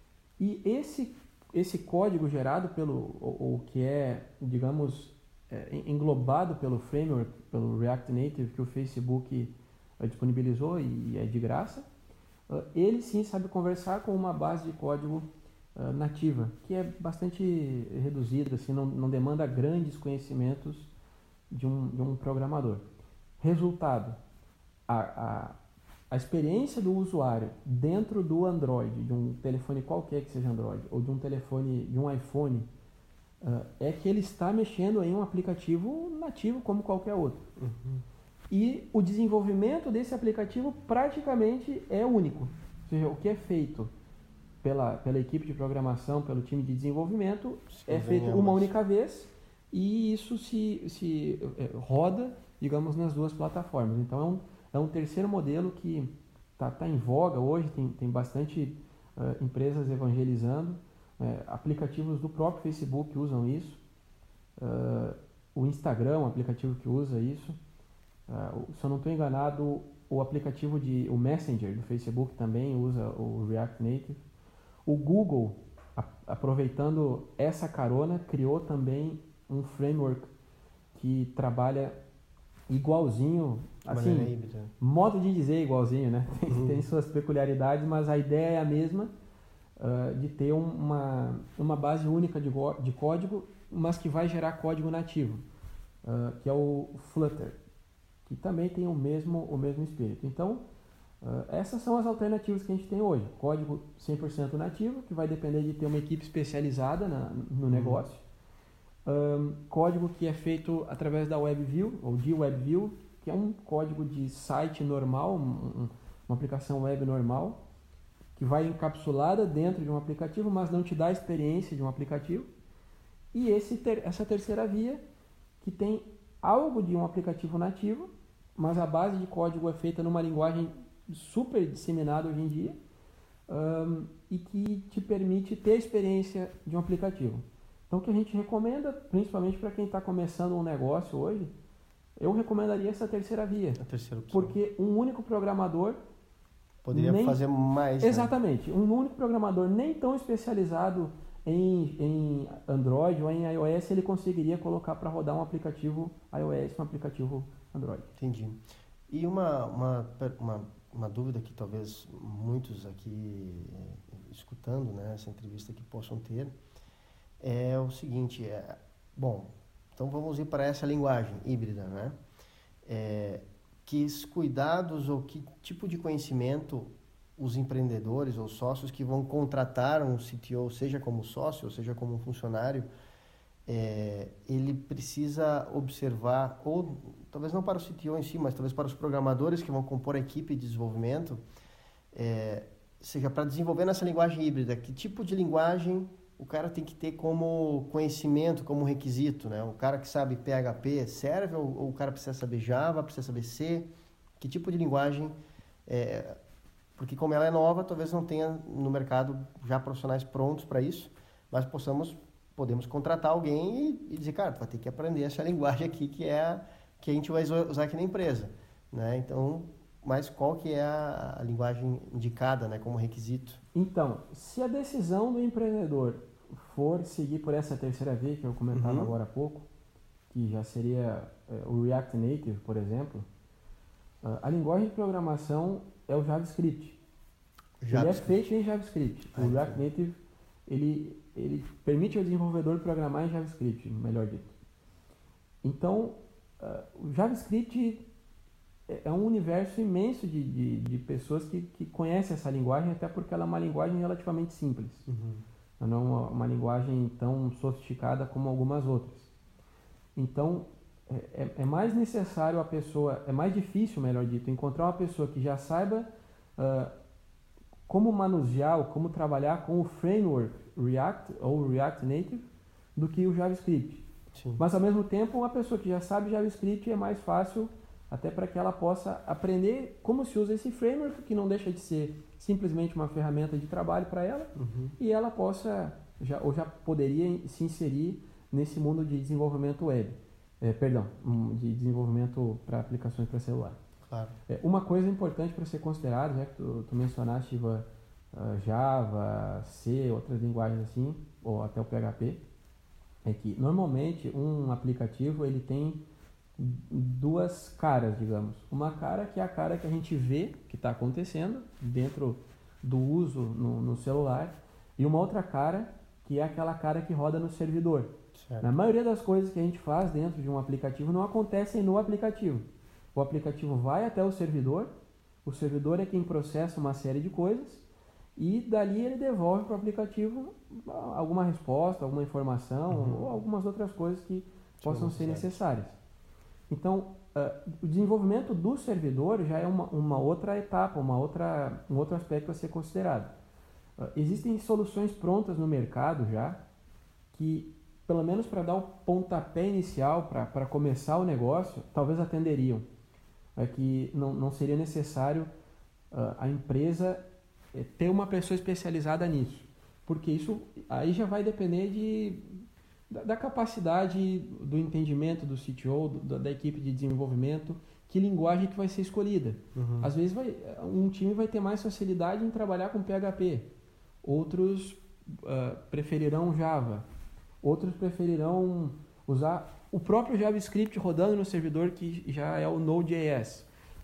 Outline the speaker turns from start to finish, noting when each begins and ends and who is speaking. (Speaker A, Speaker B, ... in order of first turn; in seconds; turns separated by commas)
Speaker A: 0.4-11.8, Speaker A: 12.5-20.9, Speaker A: 21.5-22.8, Speaker A: 23.4-24.1, Speaker A: 24.9-25.6, Speaker A: 26.1-32.7, Speaker A: 33.4-37.5, Speaker B: 37.6-38.0, Speaker A: 38.5-43.9, Speaker A: 44.6-63.8, Speaker B: 47.7-48.7, Speaker A: 64.6-67.6, Speaker A: 68.3-74.2, Speaker A: 74.8-80.3, Speaker A: 80.9-82.0, Speaker A: 82.7-89.1, Speaker B: 83.9-84.7, Speaker B: 86.5-86.8, Speaker A: 89.8-95.4, Speaker A: 96.0-97.6, Speaker A: 98.2-100.6, Speaker A: 101.2-108.2, Speaker B: 107.7-108.0, Speaker A: 109.0-117.6, Speaker A: 118.3-122.5, Speaker A: 123.3-125.0, Speaker A: 125.6-132.8, Speaker A: 133.5-141.5, Speaker A: 142.2-143.8, Speaker B: 143.8-144.5, Speaker A: 144.3-146.0, Speaker B: 146.8-148.3, Speaker A: 146.9-147.4, Speaker A: 148.0-158.1, Speaker B: 158.2-166.5, Speaker B: 167.4-172.2, Speaker B: 172.8-182.9, Speaker B: 183.7-191.4, Speaker B: 192.1-203.9, Speaker B: 204.4-205.3, Speaker B: 205.8-206.3, Speaker B: 207.0-223.6, Speaker A: 223.7-229.7, Speaker B: 228.7-229.1, Speaker A: 230.3-233.2, Speaker A: 234.2-237.0, Speaker B: 237.8-238.4, Speaker A: 237.9-244.5, Speaker B: 239.3-239.8, Speaker A: 245.6-248.0, Speaker A: 248.9-255.1, Speaker B: 255.1-255.4, Speaker A: 255.8-259.3, Speaker A: 260.1-266.9, Speaker A: 267.9-274.0, Speaker B: 274.3-274.6, Speaker A: 274.6-293.8, Speaker B: 284.6-284.9, Speaker B: 294.1-294.3, Speaker A: 294.5-302.4, Speaker A: 303.2-306.0, Speaker A: 306.6-324.9, Speaker B: 318.3-318.7, Speaker A: 325.4-327.8, Speaker A: 328.4-335.9, Speaker B: 332.9-333.2, Speaker B: 334.8-335.6, Speaker A: 336.7-343.3, Speaker A: 344.0-346.6, Speaker A: 347.3-352.9, Speaker A: 353.6-355.5, Speaker A: 356.1-357.2, Speaker A: 357.7-373.7, Speaker B: 369.7-370.1, Speaker A: 374.2-377.0, Speaker A: 377.6-383.7